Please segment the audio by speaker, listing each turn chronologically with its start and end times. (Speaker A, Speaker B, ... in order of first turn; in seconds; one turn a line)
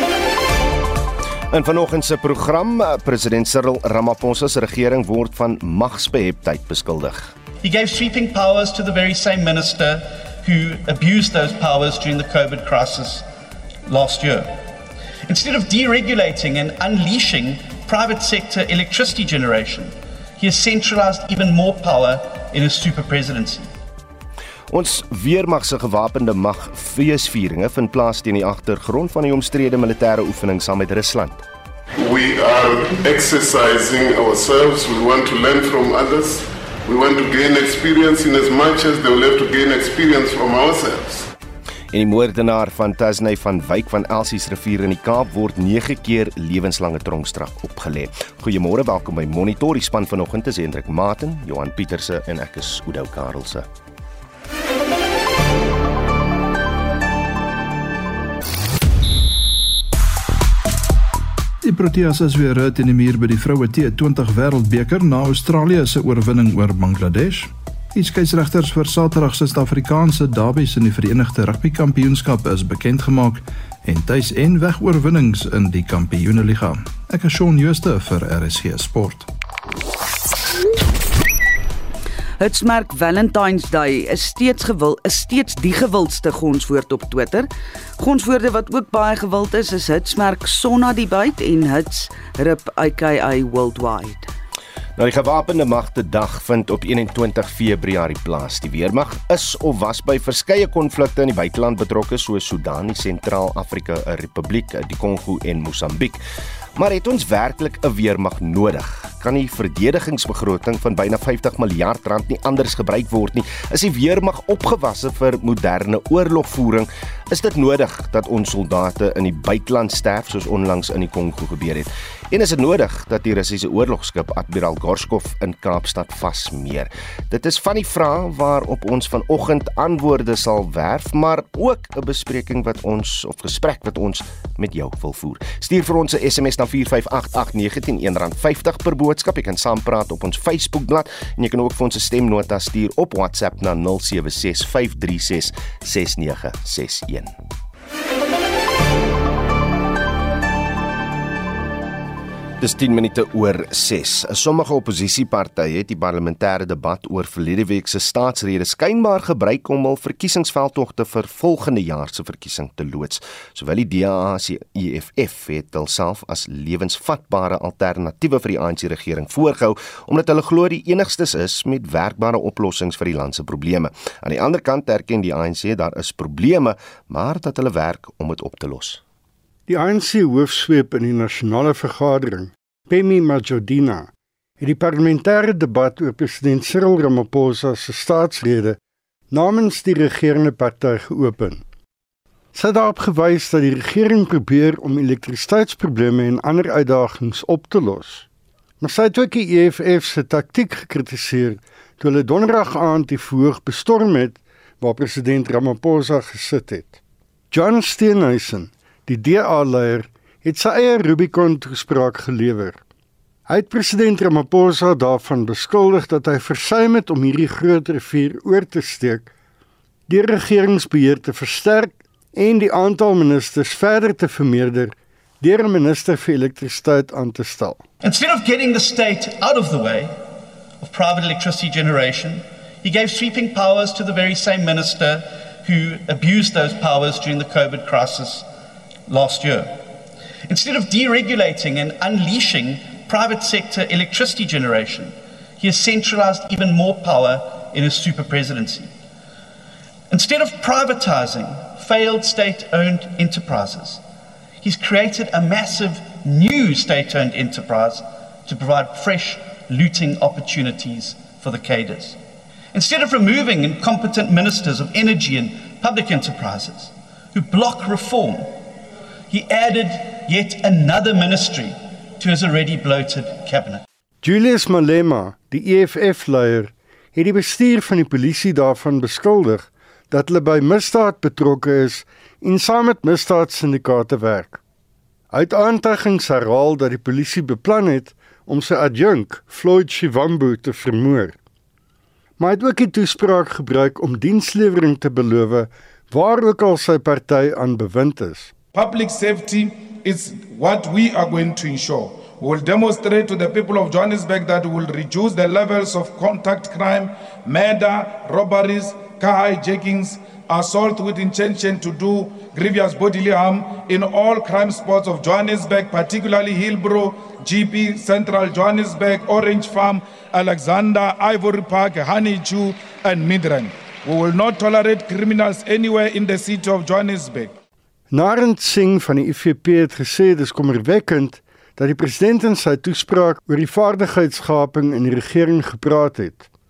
Speaker A: 1.5-7.3
Speaker B: 7.6-13.2
Speaker B: 13.9-14.5
Speaker B: 15.3-23.7
Speaker A: 24.7-31.4
Speaker C: 32.0-41.2
Speaker A: 41.9-53.6
Speaker D: 61.6-79.3
Speaker E: 82.4-94.3
Speaker A: 95.0-106.2
Speaker A: 106.8-147.3
Speaker A: 152.6-179.0
Speaker F: 179.7-188.8
Speaker F: 189.3-191.6
Speaker F: 192.5-198.2
Speaker F: 198.8-207.0
Speaker F: 207.5-212.8
Speaker F: 213.5-219.3
Speaker F: 220.1-227.8
Speaker B: 228.0-230.2
Speaker B: 230.8-238.4
Speaker B: 239.1-239.8
Speaker B: 240.5-248.9
Speaker B: 250.1-254.0
Speaker B: 254.6-262.2
Speaker B: 262.7-268.6
Speaker B: 269.3-273.8
Speaker F: 274.2-284.6
Speaker F: 285.3-291.4
Speaker F: 292.4-298.5
Speaker G: 298.7-327.5
Speaker F: 328.1-336.5